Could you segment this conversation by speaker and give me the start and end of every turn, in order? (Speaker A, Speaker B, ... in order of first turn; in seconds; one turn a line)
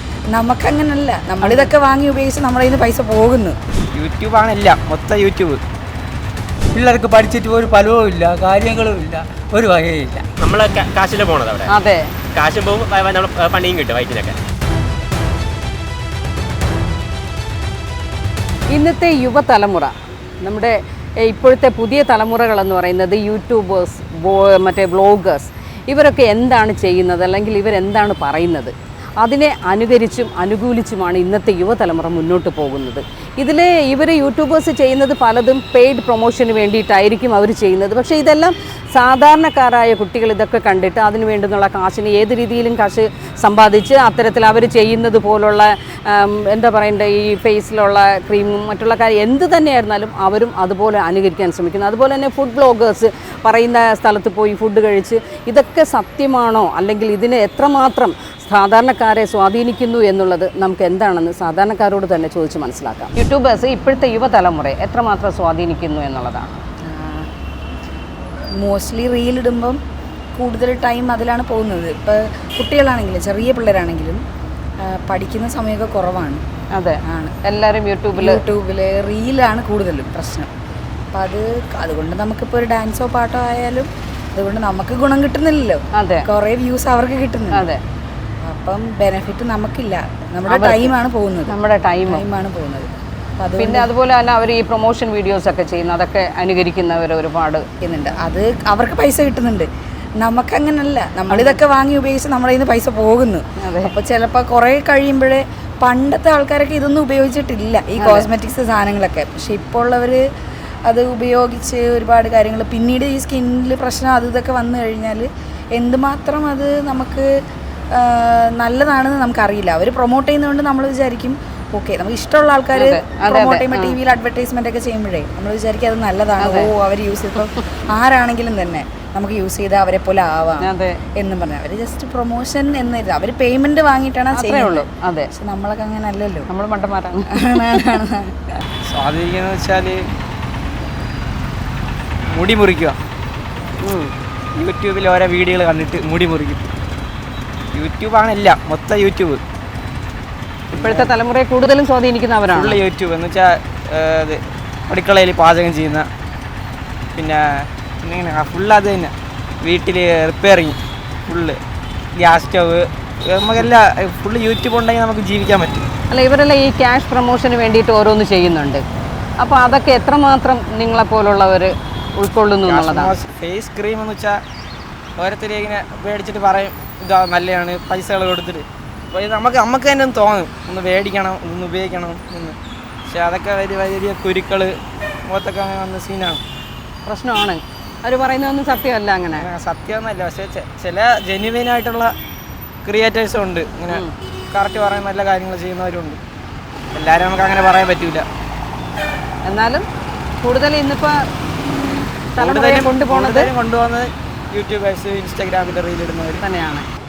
Speaker A: 0.3-3.6
Speaker B: 4.0-5.6
Speaker C: 6.7-10.2
Speaker D: 10.4-11.7
Speaker E: 11.7-12.1
Speaker D: 12.3-14.4
Speaker E: 18.7-19.9
Speaker E: 20.4-66.6
Speaker A: 66.9-67.3
Speaker A: 68.6-69.8
Speaker A: 70.4-74.2
Speaker A: 74.9-76.4
Speaker E: 76.8-78.4
Speaker A: 77.1-77.3
Speaker A: 78.2-80.5
Speaker A: 81.1-87.7
Speaker E: 86.0-86.3
Speaker E: 87.5-87.8
Speaker A: 88.5-91.5
Speaker E: 90.5-90.9
Speaker E: 91.5-92.2
Speaker A: 92.1-92.9
Speaker A: 93.4-93.9
Speaker E: 93.6-97.7
Speaker A: 97.8-99.7
Speaker A: 100.2-110.2
Speaker E: 101.3-101.6
Speaker E: 103.6-103.9
Speaker E: 108.0-108.3
Speaker A: 110.9-117.3
Speaker A: 118.0-136.5
Speaker E: 122.7-124.0
Speaker E: 126.4-126.7
Speaker E: 130.6-131.0
Speaker E: 134.3-135.3
Speaker E: 136.5-137.9
Speaker A: 137.3-138.5
Speaker B: 138.9-140.0
Speaker B: 142.3-143.0
Speaker E: 143.8-144.1
Speaker B: 144.6-146.7
Speaker B: 147.7-149.4
Speaker B: 150.7-151.1
Speaker E: 150.8-152.8
Speaker B: 152.5-156.1
Speaker B: 157.2-157.4
Speaker B: 158.0-159.1
Speaker B: 159.6-160.8
Speaker B: 161.3-161.6
Speaker B: 162.2-165.9
Speaker E: 166.1-168.8
Speaker E: 169.4-173.1
Speaker B: 172.7-174.4
Speaker B: 175.2-182.6
Speaker B: 183.1-184.8
Speaker B: 185.3-186.4
Speaker E: 187.1-189.5
Speaker B: 189.3-192.1
Speaker B: 192.8-196.2
Speaker B: 196.9-198.2
Speaker E: 199.5-199.8
Speaker E: 200.4-201.2
Speaker E: 202.4-203.5
Speaker B: 202.4-206.4
Speaker E: 206.4-206.9